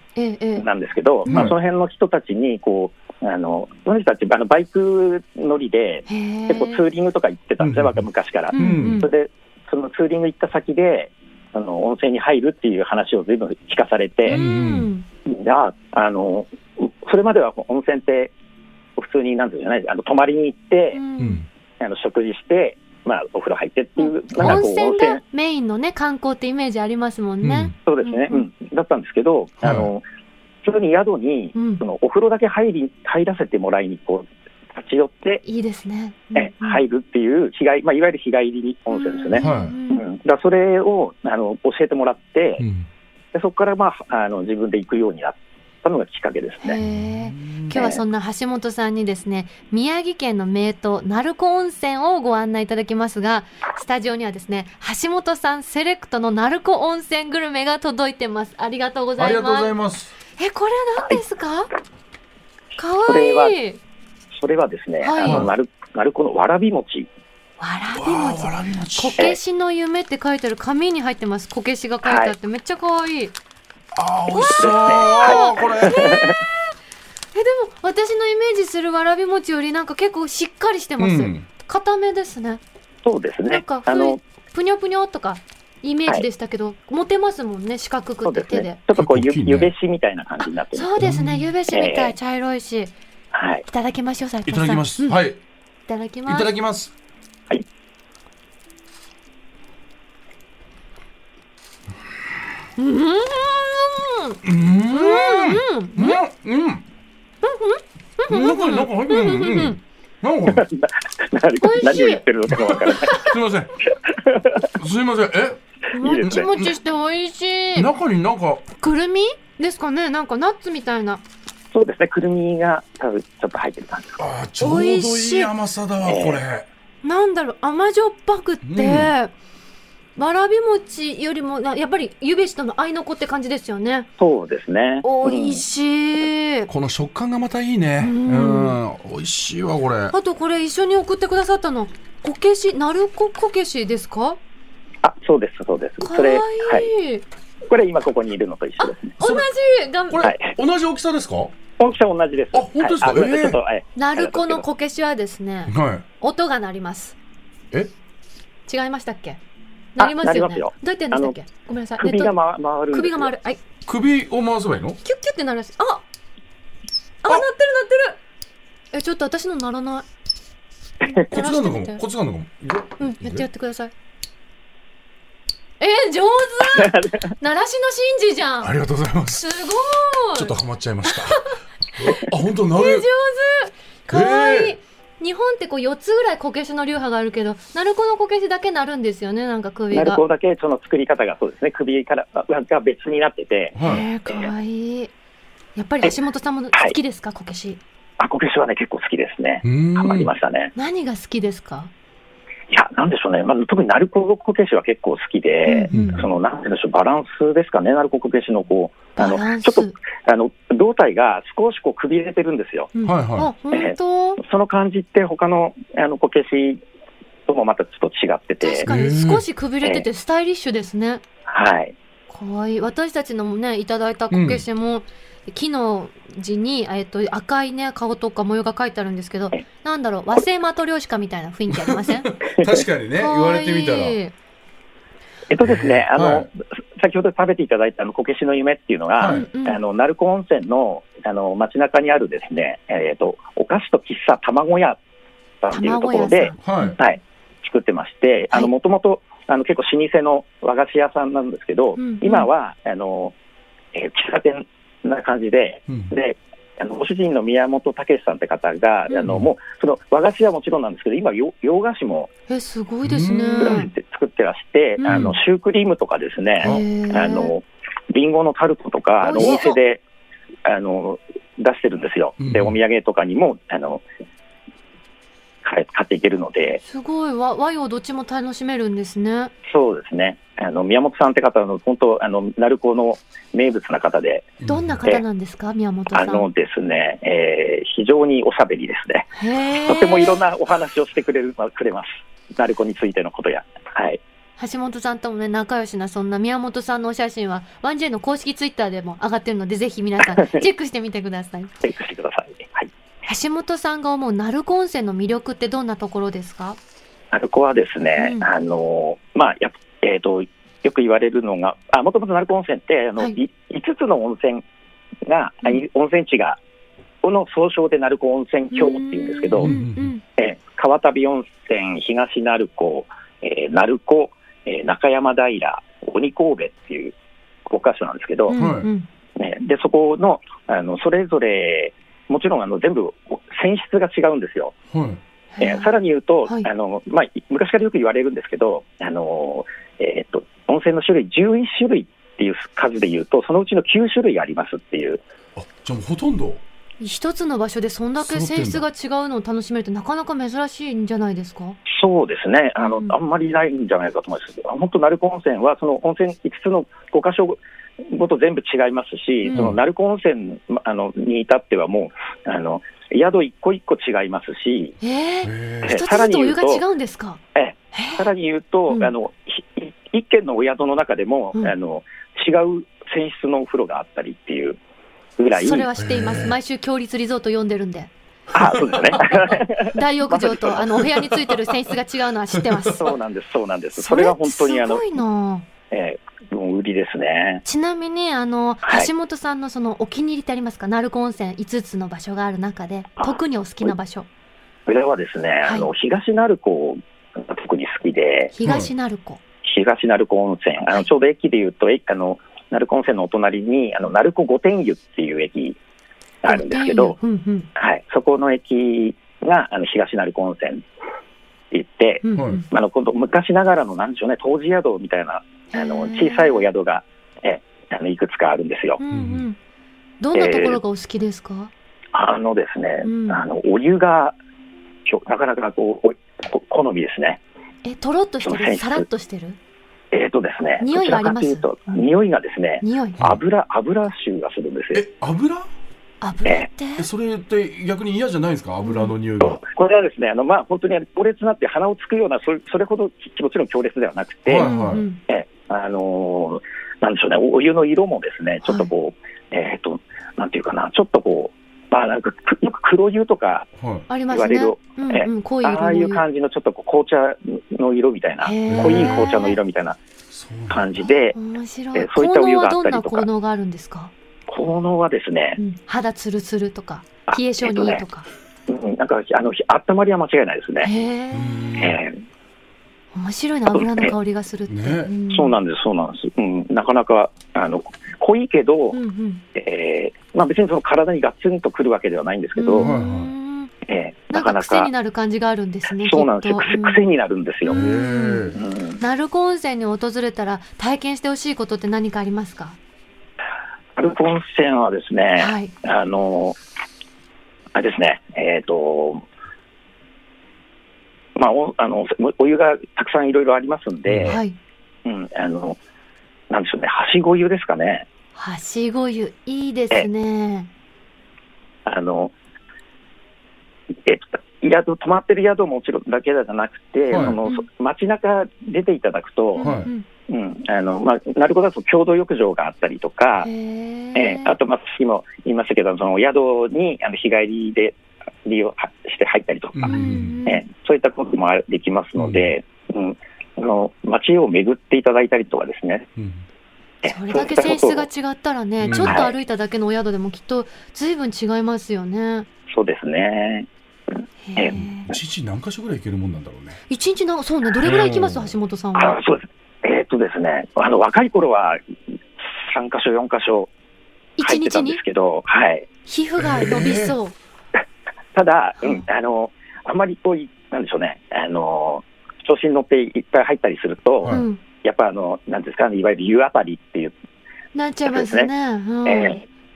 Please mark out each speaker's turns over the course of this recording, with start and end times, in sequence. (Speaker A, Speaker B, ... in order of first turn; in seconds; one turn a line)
Speaker A: 0.1-0.7
Speaker B: 0.6-14.4
Speaker C: 1.3-1.5
Speaker A: 6.1-6.8
Speaker C: 7.6-9.1
Speaker A: 8.5-9.1
Speaker C: 14.3-14.9
Speaker A: 14.3-15.1
Speaker B: 15.2-18.3
Speaker B: 19.0-21.0
Speaker A: 20.9-21.4
Speaker C: 21.2-21.4
Speaker B: 21.8-25.2
Speaker A: 24.0-28.4
Speaker C: 24.4-24.6
Speaker C: 27.4-27.7
Speaker B: 27.9-30.0
Speaker C: 29.6-29.9
Speaker B: 30.6-35.4
Speaker A: 31.5-31.8
Speaker A: 35.4-36.8
Speaker B: 36.4-42.6
Speaker A: 38.9-40.0
Speaker C: 39.4-39.8
Speaker C: 42.6-42.9
Speaker B: 43.3-46.8
Speaker A: 46.6-59.7
Speaker C: 46.8-47.7
Speaker B: 47.7-48.0
Speaker C: 59.2-60.1
Speaker A: 60.4-61.7
Speaker A: 62.8-63.8
Speaker B: 63.0-63.5
Speaker B: 64.4-67.1
Speaker A: 65.0-65.5
Speaker C: 65.2-65.5
Speaker A: 67.6-73.3
Speaker C: 68.0-69.3
Speaker B: 72.0-72.3
Speaker C: 73.9-76.1
Speaker A: 74.3-76.5
Speaker B: 74.6-76.4
Speaker A: 77.3-82.6
Speaker C: 81.0-81.5
Speaker B: 83.0-84.2
Speaker A: 83.5-88.8
Speaker B: 88.2-91.0
Speaker C: 89.0-89.7
Speaker A: 90.4-92.9
Speaker C: 91.0-91.5
Speaker B: 91.7-92.1
Speaker B: 93.3-93.7
Speaker A: 93.7-95.2
Speaker C: 94.5-95.4
Speaker A: 95.9-96.5
Speaker C: 96.2-96.9
Speaker A: 102.8-106.2
Speaker C: 104.4-106.8
Speaker A: 107.4-109.8
Speaker C: 108.3-110.7
Speaker B: 110.5-113.2
Speaker A: 111.6-112.2
Speaker C: 112.5-113.8
Speaker A: 112.9-113.3
Speaker B: 114.1-114.7
Speaker C: 114.8-115.6
Speaker A: 115.9-117.9
Speaker B: 116.0-116.5
Speaker C: 116.2-116.7
Speaker C: 117.8-118.7
Speaker A: 118.8-121.2
Speaker B: 121.7-124.2
Speaker C: 124.2-126.7
Speaker A: 124.6-125.5
Speaker B: 126.0-126.4
Speaker A: 127.0-129.3
Speaker C: 128.6-129.1
Speaker A: 130.2-134.1
Speaker B: 134.2-135.6
Speaker A: 135.0-136.7
Speaker C: 136.7-140.1
Speaker A: 138.0-138.8
Speaker A: 140.1-144.4
Speaker B: 145.0-146.9
Speaker A: 146.0-147.2
Speaker B: 147.7-149.1
Speaker A: 148.8-150.3
Speaker C: 149.2-149.5
Speaker C: 150.1-151.5
Speaker B: 150.2-150.5
Speaker B: 151.8-154.6
Speaker C: 152.5-153.6
Speaker A: 153.9-157.2
Speaker C: 155.7-156.0
Speaker A: 158.7-159.4
Speaker A: 159.9-162.3
Speaker B: 160.0-161.4
Speaker B: 162.0-163.3
Speaker A: 162.9-163.6
Speaker C: 163.9-165.0
Speaker A: 165.0-166.0
Speaker A: 167.2-168.2
Speaker A: 168.9-170.1
Speaker A: 171.2-172.0
Speaker C: 171.3-173.4
Speaker A: 173.0-173.9
Speaker A: 175.8-178.7
Speaker B: 176.7-177.3
Speaker C: 178.6-179.6
Speaker A: 179.4-180.5
Speaker C: 180.3-183.1
Speaker A: 181.1-181.5
Speaker A: 182.7-190.2
Speaker C: 184.1-184.8
Speaker B: 189.9-194.5
Speaker C: 193.8-194.1
Speaker A: 193.8-195.1
Speaker A: 195.8-197.8
Speaker B: 198.2-200.7
Speaker C: 199.6-200.3
Speaker A: 200.8-201.9
Speaker B: 202.7-212.9
Speaker A: 205.7-206.2
Speaker C: 205.9-206.2
Speaker A: 209.2-210.0
Speaker A: 212.9-214.4
Speaker C: 213.0-213.5
Speaker B: 213.7-216.8
Speaker B: 217.5-218.9
Speaker A: 218.6-221.2
Speaker C: 218.8-219.4
Speaker B: 221.5-221.9
Speaker A: 222.3-232.3
Speaker C: 224.3-224.6
Speaker C: 231.7-234.2
Speaker A: 233.1-234.3
Speaker B: 235.5-245.0
Speaker C: 235.6-236.5
Speaker C: 239.2-239.4
Speaker A: 239.2-239.8
Speaker B: 245.6-253.3
Speaker A: 245.7-247.0
Speaker C: 246.6-246.9
Speaker A: 252.0-252.5
Speaker B: 253.9-262.3
Speaker C: 255.9-256.1
Speaker A: 262.5-263.9
Speaker C: 263.0-263.8
Speaker B: 263.6-270.0
Speaker A: 265.0-265.4
Speaker C: 265.1-265.4
Speaker A: 266.6-267.5
Speaker A: 269.2-269.8
Speaker B: 270.6-274.0
Speaker C: 272.4-272.8
Speaker B: 275.6-276.8
Speaker A: 276.8-279.5
Speaker B: 279.7-284.5
Speaker C: 284.6-285.0
Speaker A: 284.6-286.5
Speaker B: 286.1-294.2
Speaker A: 289.3-290.4
Speaker A: 294.6-301.7
Speaker B: 300.2-300.6
Speaker B: 301.8-302.9
Speaker A: 303.2-306.8
Speaker B: 307.3-314.6
Speaker A: 308.2-308.5
Speaker B: 315.2-316.6
Speaker B: 317.2-319.7
Speaker A: 318.7-320.2
Speaker C: 319.6-320.1
Speaker B: 320.4-327.1
Speaker B: 327.7-328.6
Speaker A: 328.5-329.1
Speaker C: 328.5-328.9
Speaker B: 329.4-334.8
Speaker C: 334.9-335.2
Speaker A: 335.6-335.9
Speaker B: 335.6-345.2
Speaker C: 345.5-346.6
Speaker A: 347.0-351.8
Speaker C: 348.2-348.9
Speaker B: 351.9-364.9
Speaker A: 352.8-353.1
Speaker C: 359.5-359.8
Speaker A: 365.0-367.4
Speaker C: 365.4-366.0
Speaker B: 365.8-366.8
Speaker B: 367.5-374.8
Speaker A: 367.9-368.2
Speaker B: 375.4-375.9
Speaker A: 375.5-378.1
Speaker C: 376.0-376.6
Speaker C: 378.5-379.6
Speaker B: 378.5-381.1
Speaker A: 379.8-383.1
Speaker C: 382.6-382.9
Speaker B: 382.9-385.1
Speaker A: 383.9-385.7
Speaker B: 385.9-387.6
Speaker A: 387.6-394.3
Speaker B: 393.2-393.9
Speaker B: 394.9-398.5
Speaker A: 398.5-399.4
Speaker C: 398.6-398.9
Speaker B: 399.6-405.8
Speaker B: 406.4-407.2
Speaker A: 406.5-407.7
Speaker B: 407.8-410.8
Speaker B: 411.7-419.0
Speaker A: 412.2-412.7
Speaker C: 412.4-412.6
Speaker A: 415.7-416.7
Speaker A: 419.0-419.6
Speaker C: 419.1-419.4
Speaker A: 420.2-421.7
Speaker B: 420.4-420.8
Speaker B: 422.1-424.4
Speaker A: 423.0-423.4
Speaker B: 425.1-427.4
Speaker A: 427.8-429.6
Speaker B: 428.4-429.1
Speaker B: 430.1-435.0
Speaker A: 430.8-431.6
Speaker A: 432.8-433.2
Speaker C: 434.9-435.7
Speaker A: 436.2-437.1
Speaker C: 437.0-439.6
Speaker A: 438.8-439.1
Speaker B: 439.4-444.7
Speaker C: 444.5-445.1
Speaker A: 444.6-445.2
Speaker B: 445.3-453.7
Speaker A: 448.6-448.9
Speaker C: 453.8-454.1
Speaker A: 454.1-456.2
Speaker B: 454.3-460.0
Speaker A: 458.4-459.6
Speaker C: 458.7-459.3
Speaker C: 460.3-461.1
Speaker B: 460.7-461.4
Speaker A: 461.3-464.1
Speaker B: 461.9-463.3
Speaker B: 464.5-465.6
Speaker A: 465.6-468.3
Speaker B: 467.3-468.0
Speaker B: 468.7-470.9
Speaker A: 470.8-471.9
Speaker C: 471.3-472.0
Speaker B: 471.8-472.2
Speaker A: 473.1-475.6
Speaker B: 473.7-474.1
Speaker C: 474.7-475.1
Speaker B: 475.3-479.0
Speaker A: 478.9-479.4
Speaker B: 479.5-482.9
Speaker A: 482.6-483.7
Speaker C: 482.8-483.3
Speaker B: 483.9-484.9
Speaker A: 484.3-487.0
Speaker B: 486.0-487.8
Speaker A: 487.6-492.8
Speaker C: 487.7-488.6
Speaker B: 488.5-489.0
Speaker B: 493.9-496.6
Speaker A: 495.4-495.7
Speaker B: 497.7-499.2
Speaker B: 501.4-504.4
Speaker C: 504.1-504.4
Speaker A: 504.2-504.6
Speaker B: 505.0-505.8
Speaker B: 506.5-508.1
Speaker A: 508.4-510.7
Speaker B: 511.9-512.3
Speaker B: 514.0-519.7
Speaker C: 517.1-517.4
Speaker A: 519.5-520.0
Speaker C: 519.6-519.9
Speaker B: 520.3-523.5
Speaker A: 523.4-524.5
Speaker B: 524.1-536.1
Speaker C: 529.8-530.4
Speaker A: 529.9-530.6
Speaker C: 532.2-532.5
Speaker C: 536.1-536.4
Speaker B: 537.0-538.0
Speaker A: 537.0-542.5
Speaker C: 538.8-539.2
Speaker B: 539.0-539.4
Speaker B: 542.7-543.7
Speaker A: 544.4-545.1
Speaker C: 544.7-546.8
Speaker A: 546.9-549.2
Speaker C: 547.8-548.5
Speaker B: 548.9-551.8
Speaker B: 552.5-553.7
Speaker A: 554.4-555.0
Speaker B: 554.4-555.9
Speaker A: 556.1-557.4
Speaker C: 556.4-557.1
Speaker B: 558.4-567.1
Speaker A: 564.3-564.6
Speaker A: 567.7-569.4
Speaker B: 568.1-568.5
Speaker B: 569.0-569.4